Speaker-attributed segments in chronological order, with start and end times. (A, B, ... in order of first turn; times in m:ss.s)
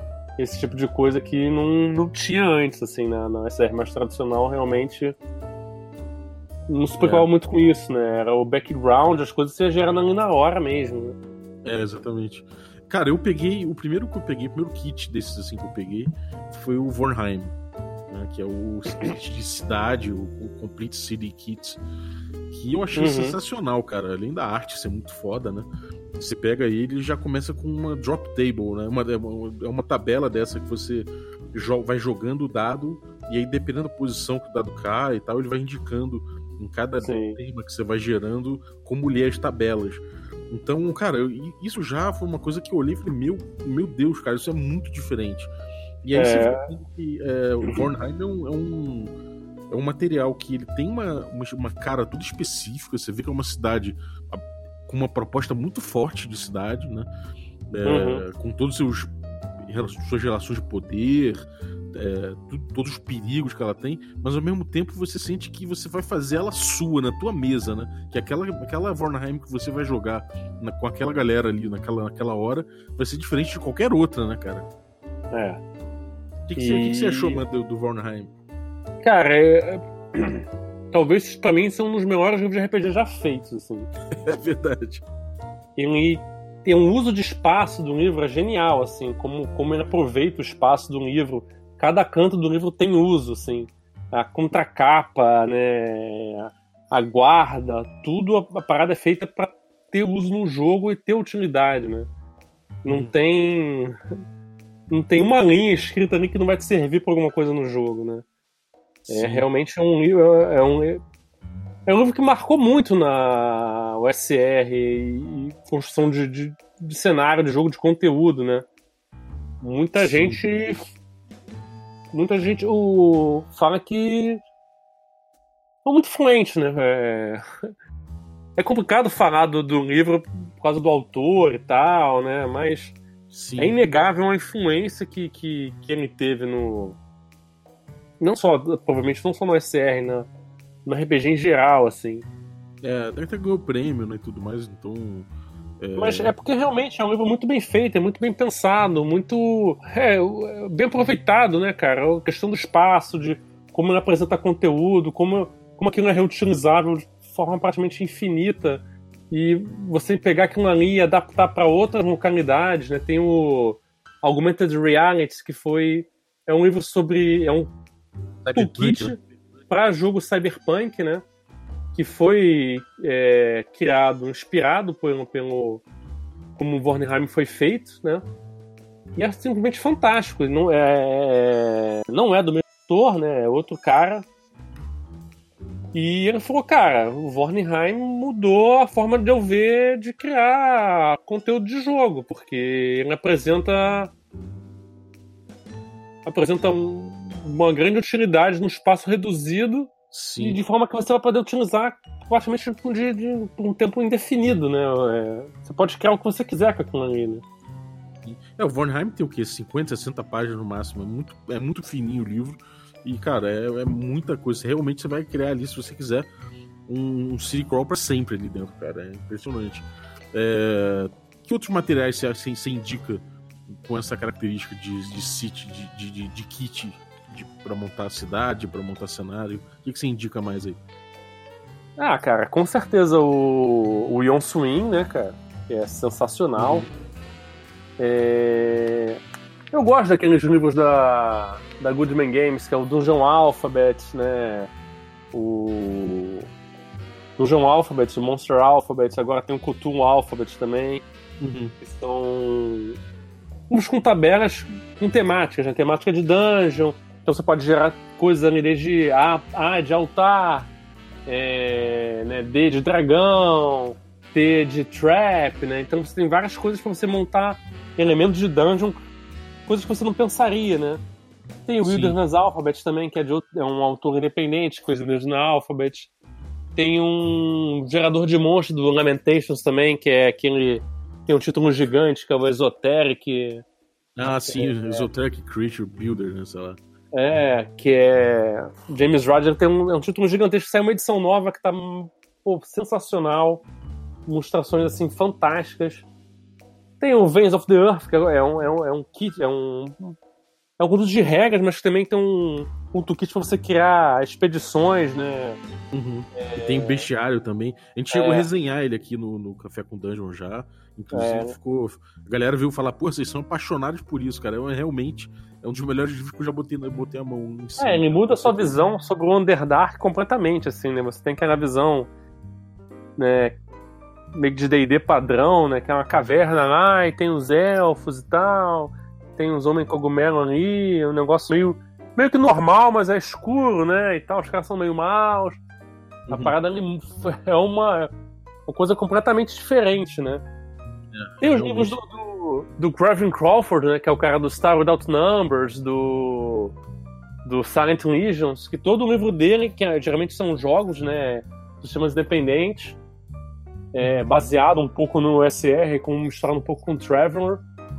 0:00.4-0:05.2 A
0:06.7-0:11.2 A
0:07.0-0:07.3 B
0:11.6-0:17.5 B
0:18.1-0:21.8 B
0:22.5-0:45.5 B
0:23.0-0:23.4 A
0:37.0-0:37.4 A
0:46.0-0:49.1 B
0:46.1-0:46.7 A
0:49.7-0:57.1 B
0:57.7-1:14.7 B
0:57.8-0:58.2 A
1:15.3-1:15.6 A
1:16.5-1:18.3 B
1:16.6-1:17.4 A
1:19.0-1:23.9 A
1:24.2-1:25.0 B
1:25.8-1:42.1 A
1:42.8-1:43.1 B
1:42.9-1:44.0 A
1:44.9-1:48.2 A
1:49.1-1:49.5 B
1:49.1-1:51.0 A
1:51.9-1:58.7 A
1:59.6-2:00.9 A
2:00.0-2:00.4 B
2:02.1-2:04.4 A
2:05.8-2:07.4 A
2:08.6-2:13.0 A
2:13.3-2:13.8 B
2:13.6-2:17.0 A
2:18.2-2:20.3 A
2:20.9-2:22.3 A
2:22.8-2:25.3 B
2:25.8-2:26.3 B
2:26.0-2:47.7 A
2:48.4-2:49.2 B
2:48.5-2:51.2 A
2:52.0-2:55.8 A
2:56.6-2:58.2 A
2:59.2-3:04.3 A
3:05.9-3:14.1 A
3:16.2-3:27.4 A
3:20.1-3:20.6 B
3:28.2-3:36.3 B
3:36.9-3:50.8 B
3:52.0-3:56.9 A
3:56.6-3:56.9 B
3:58.0-3:59.2 A
3:59.7-4:04.7 A
4:05.3-4:06.5 A
4:07.4-4:11.0 A
4:11.4-4:11.7 B
4:11.8-4:13.0 A
4:13.7-4:20.7 A
4:21.3-4:29.0 A
4:29.7-4:31.0 A
4:31.7-4:36.1 A
4:31.8-4:32.2 B
4:36.8-4:43.6 A
4:44.2-4:46.8 B
4:44.4-4:45.1 A
4:47.1-4:53.6 A
4:54.3-4:56.1 A
4:57.0-5:00.2 A
5:00.8-5:05.6 A
5:05.9-5:18.8 B
5:06.4-5:07.1 A
5:08.1-5:08.5 A
5:11.1-5:11.5 A
5:17.8-5:22.1 A
5:23.2-5:23.6 A
5:24.4-5:35.6 A
5:36.3-5:36.5 B
5:36.3-5:38.1 A
5:38.7-5:40.4 A
5:41.1-5:41.9 B
5:41.4-5:46.8 A
5:47.4-5:53.0 A
5:53.9-5:57.6 A